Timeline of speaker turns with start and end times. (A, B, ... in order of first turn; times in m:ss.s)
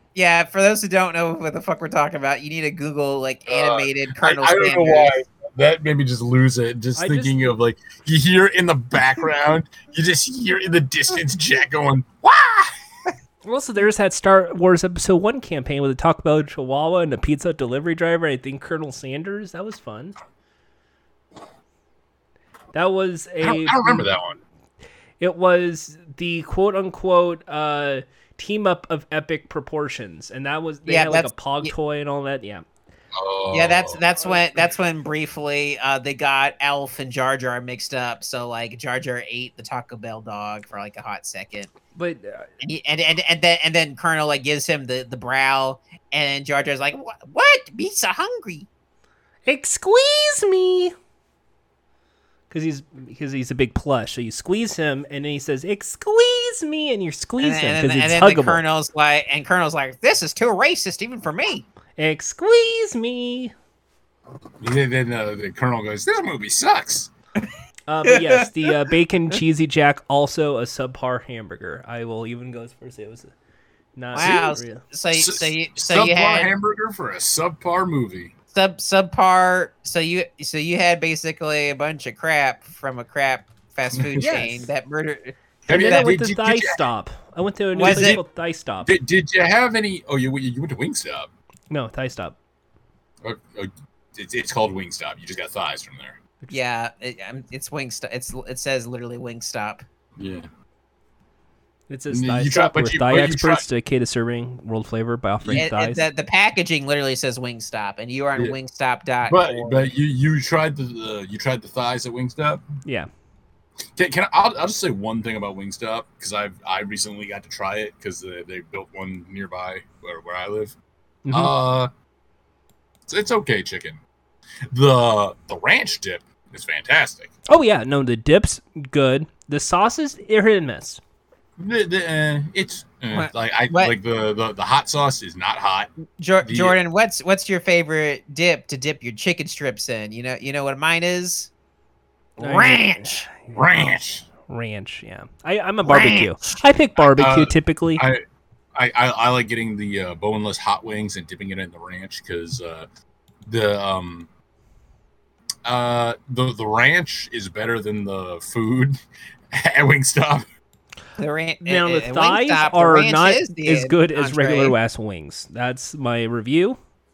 0:00.1-0:05.1 A
0:03.5-0:12.7 B
0:07.0-0:07.4 C
0:13.4-0:20.2 C
0:22.7-0:24.1 C
0:23.4-0:24.4 B
0:25.2-0:32.6 C
0:30.8-0:31.7 A
0:33.1-0:34.0 B
0:33.5-0:41.7 A
0:42.0-0:42.5 C
0:42.6-0:48.7 A
0:49.4-0:50.9 C
0:52.5-0:58.6 C
0:57.4-1:01.6 A
1:02.0-1:03.5 C
1:04.6-1:07.1 B
1:07.9-1:13.3 C
1:08.1-1:08.5 A
1:14.0-1:14.8 C
1:14.1-1:16.5 A
1:14.2-1:14.4 B
1:15.1-1:18.3 B
1:18.5-1:26.1 A
1:23.9-1:24.3 B
1:24.2-1:24.7 C
1:25.7-1:26.8 B
1:25.7-1:28.9 C
1:27.7-1:28.2 A
1:27.8-1:28.2 B
1:28.8-1:31.3 B
1:31.7-1:32.4 C
1:33.2-1:36.2 B
1:36.5-1:39.8 A
1:40.2-1:40.5 B
1:41.9-1:46.0 C
1:42.1-1:43.6 B
1:45.4-1:45.7 B
1:45.6-1:49.9 A
1:49.3-1:52.6 B
1:53.9-2:00.7 B
2:01.2-2:01.5 C
2:01.3-2:01.9 B
2:03.1-2:04.0 B
2:04.7-2:07.3 B
2:07.5-2:11.0 C
2:11.6-2:15.9 B
2:13.1-2:13.9 A
2:16.2-2:21.5 A
2:16.4-2:16.8 B
2:22.4-2:23.3 A
2:22.4-2:23.5 C
2:23.5-2:24.3 B
2:24.5-2:28.0 C
2:25.8-2:26.6 A
2:27.0-2:28.2 B
2:28.7-2:32.9 B
2:33.4-2:34.3 B
2:35.6-2:39.0 B
2:39.5-2:40.4 B
2:41.2-2:44.8 A
2:41.6-2:46.8 C